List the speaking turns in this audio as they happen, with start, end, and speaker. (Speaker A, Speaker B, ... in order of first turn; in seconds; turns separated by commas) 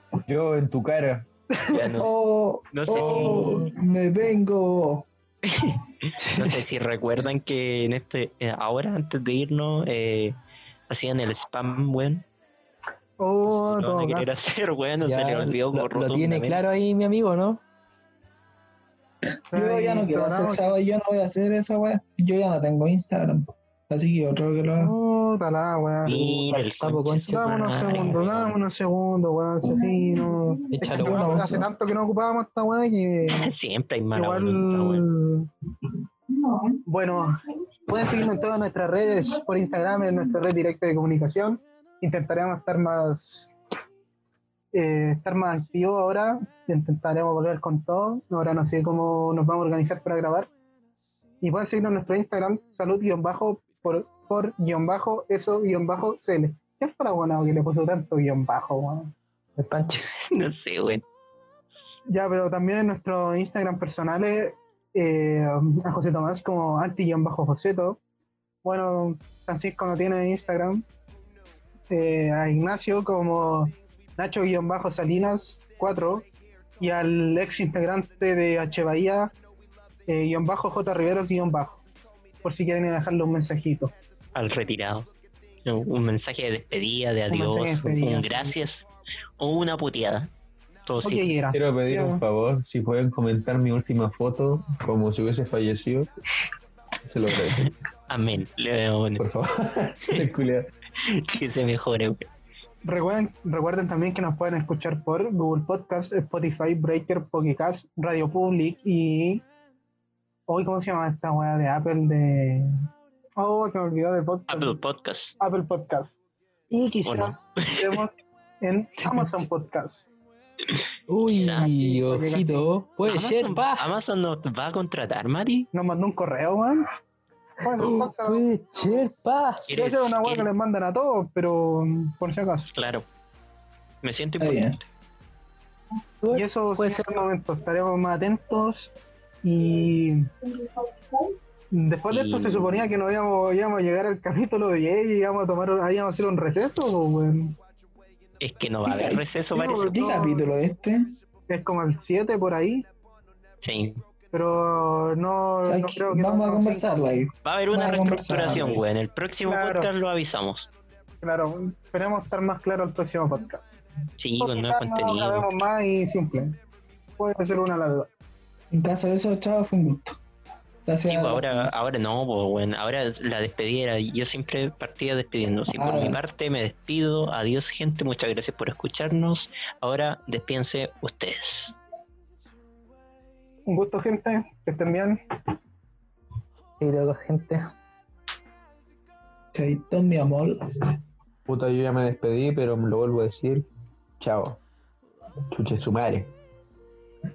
Speaker A: 0.2-1.3, Speaker B: 1.6-1.9, Speaker C: 1.7-2.1, Speaker D: 1.9-5.0, Speaker C: 2.7-3.6, Speaker A: 2.9-3.5, Speaker C: 5.4-10.3, Speaker E: 6.2-6.6, Speaker C: 10.9-12.2, Speaker B: 13.2-14.3, Speaker C: 13.5-16.6, Speaker E: 15.0-17.6, Speaker D: 19.5-24.9, Speaker B: 19.5-20.7, Speaker B: 24.8-26.5, Speaker C: 26.0-28.6, Speaker E: 26.1-27.4, Speaker B: 27.3-33.5, Speaker E: 30.7-31.4, Speaker D: 30.9-31.7, Speaker C: 33.3-35.1, Speaker B: 34.1-35.5, Speaker D: 36.4-36.8, Speaker B: 36.8-37.3, Speaker B: 37.9-43.5, Speaker B: 44.7-50.5, Speaker B: 51.4-59.1, Speaker E: 59.6-60.0, Speaker C: 60.1-61.0, Speaker B: 62.1-68.0, Speaker B: 68.6-70.8, Speaker B: 71.9-76.3, Speaker B: 76.8-79.3, Speaker B: 80.1-81.8, Speaker B: 82.4-83.9, Speaker C: 84.3-85.1, Speaker C: 85.6-88.8, Speaker B: 87.3-88.6, Speaker C: 89.4-90.3, Speaker C: 90.8-91.3, Speaker B: 91.0-92.2, Speaker A: 91.5-96.1, Speaker A: 97.0-97.7, Speaker C: 97.6-99.2, Speaker A: 99.2-100.7, Speaker C: 101.0-102.3, Speaker B: 102.8-109.4, Speaker B: 110.5-112.7, Speaker B: 113.4-114.8, Speaker C: 114.5-115.3, Speaker B: 115.4-116.2, Speaker B: 116.7-120.1, Speaker C: 117.0-118.0, Speaker E: 119.0-119.5, Speaker E: 121.1-123.9, Speaker C: 121.3-121.7, Speaker B: 121.4-122.7, Speaker C: 123.0-125.7, Speaker B: 125.7-126.8, Speaker B: 127.6-129.0, Speaker E: 127.8-129.7, Speaker C: 129.7-130.5, Speaker B: 129.7-132.7, Speaker C: 132.8-133.1, Speaker C: 134.0-134.8, Speaker D: 134.4-134.8, Speaker E: 136.2-137.3, Speaker B: 136.3-140.3, Speaker B: 141.7-147.6, Speaker C: 142.1-142.9, Speaker C: 148.4-150.0, Speaker D: 148.8-149.2, Speaker B: 149.5-150.4, Speaker D: 149.8-151.1, Speaker B: 151.5-152.9, Speaker C: 153.6-154.0, Speaker B: 154.3-157.1, Speaker D: 155.7-158.9, Speaker C: 157.4-160.7, Speaker B: 159.4-159.9, Speaker B: 161.2-163.6, Speaker C: 164.2-165.5, Speaker B: 164.4-166.6, Speaker B: 167.2-168.1, Speaker D: 168.7-170.2, Speaker D: 170.8-171.8, Speaker C: 171.1-181.7, Speaker D: 175.7-176.2, Speaker B: 183.7-185.2, Speaker E: 186.8-187.7, Speaker D: 189.5-190.6, Speaker A: 191.5-193.7, Speaker A: 194.2-194.6, Speaker A: 195.5-196.3